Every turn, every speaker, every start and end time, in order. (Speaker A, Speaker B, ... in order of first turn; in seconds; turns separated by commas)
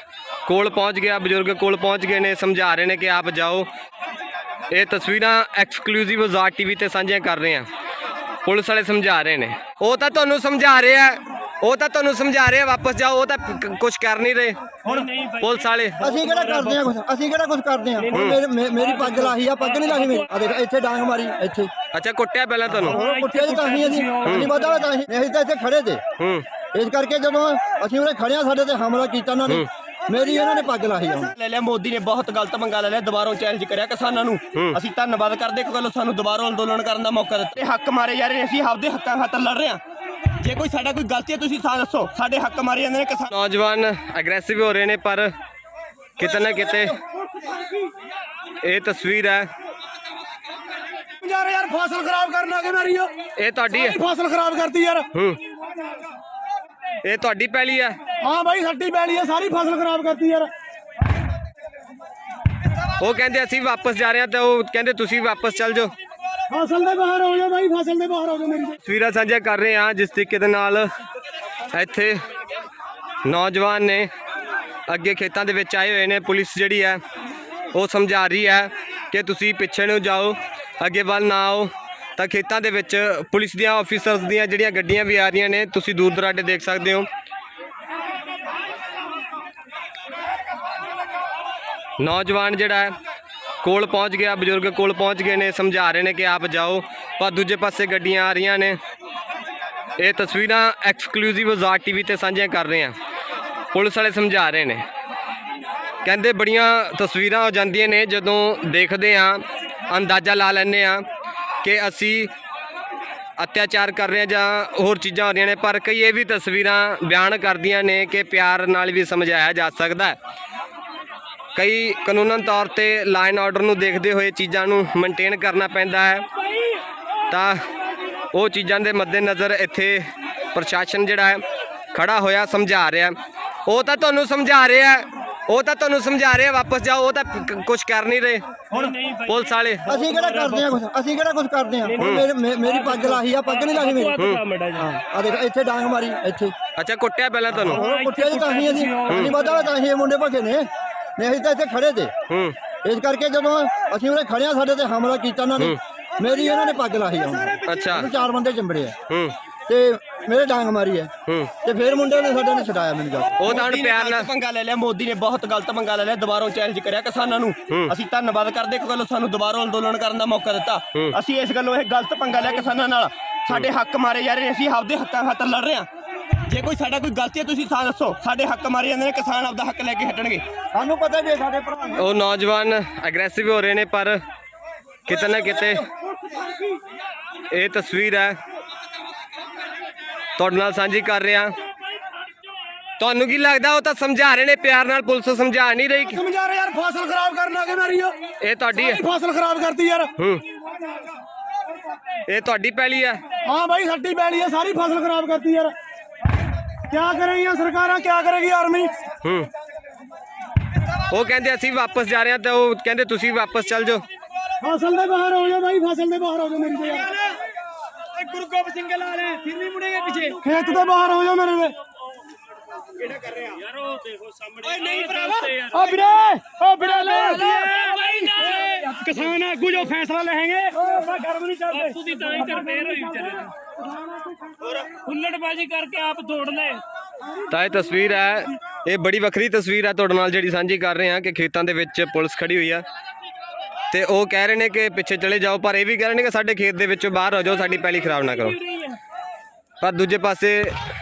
Speaker A: 0.5-3.7, Speaker A: 4.7-7.7, Speaker A: 8.4-16.1, Speaker B: 14.9-16.8, Speaker C: 16.0-21.7, Speaker A: 18.1-18.4, Speaker B: 18.7-20.2, Speaker A: 21.9-23.0, Speaker C: 22.8-26.0, Speaker B: 22.9-24.8, Speaker A: 24.2-24.5, Speaker A: 26.2-26.4, Speaker C: 26.7-31.3, Speaker D: 31.3-39.8, Speaker D: 40.4-43.3, Speaker A: 43.3-45.3, Speaker A: 46.2-47.0, Speaker A: 48.6-49.5, Speaker E: 51.2-53.1, Speaker A: 53.4-54.0, Speaker E: 53.7-55.0, Speaker A: 55.1-55.4, Speaker A: 57.0-58.0, Speaker E: 58.2-60.5, Speaker A: 63.0-65.9, Speaker E: 66.5-68.8, Speaker A: 68.8-70.9, Speaker A: 71.7-72.2, Speaker A: 73.2-74.1, Speaker A: 74.9-77.0, Speaker A: 77.7-87.1, Speaker A: 92.0-92.9, Speaker A: 93.6-98.8, Speaker A: 100.0-102.9, Speaker A: 103.7-104.8, Speaker A: 106.0-111.0, Speaker A: 111.6-112.3, Speaker A: 113.4-120.2, Speaker A: 121.5-126.2, Speaker A: 127.3-127.6, Speaker A: 128.3-133.1, Speaker A: 133.7-138.4, Speaker B: 138.7-140.7, Speaker A: 139.2-139.9, Speaker C: 139.9-144.2, Speaker B: 141.9-144.9, Speaker A: 142.0-142.2, Speaker A: 144.2-144.4, Speaker C: 144.8-146.5, Speaker A: 146.8-147.8, Speaker C: 147.6-152.1, Speaker B: 147.7-149.7, Speaker A: 149.1-149.3, Speaker A: 152.3-152.5, Speaker C: 152.8-158.9, Speaker A: 157.7-158.1, Speaker A: 159.1-159.3, Speaker C: 159.7-163.5, Speaker A: 161.2-161.5, Speaker A: 163.4-164.3, Speaker D: 163.5-175.9, Speaker D: 176.5-180.4, Speaker C: 180.7-182.0, Speaker A: 181.9-184.2, Speaker A: 185.1-185.8, Speaker A: 187.5-188.4, Speaker A: 190.4-191.5, Speaker A: 193.0-196.2, Speaker E: 196.1-198.2, Speaker A: 198.4-199.0, Speaker E: 198.7-200.1, Speaker A: 200.2-200.4, Speaker A: 202.3-203.2, Speaker E: 203.4-205.7, Speaker E: 206.9-208.9, Speaker A: 209.2-209.5, Speaker A: 211.1-214.0, Speaker E: 214.6-217.1, Speaker B: 218.2-220.4, Speaker E: 220.2-221.7, Speaker B: 223.4-225.9, Speaker E: 225.0-233.2, Speaker B: 226.8-229.4, Speaker B: 231.7-233.5, Speaker B: 234.8-236.8, Speaker A: 237.5-242.8, Speaker A: 243.9-248.6, Speaker A: 249.8-250.8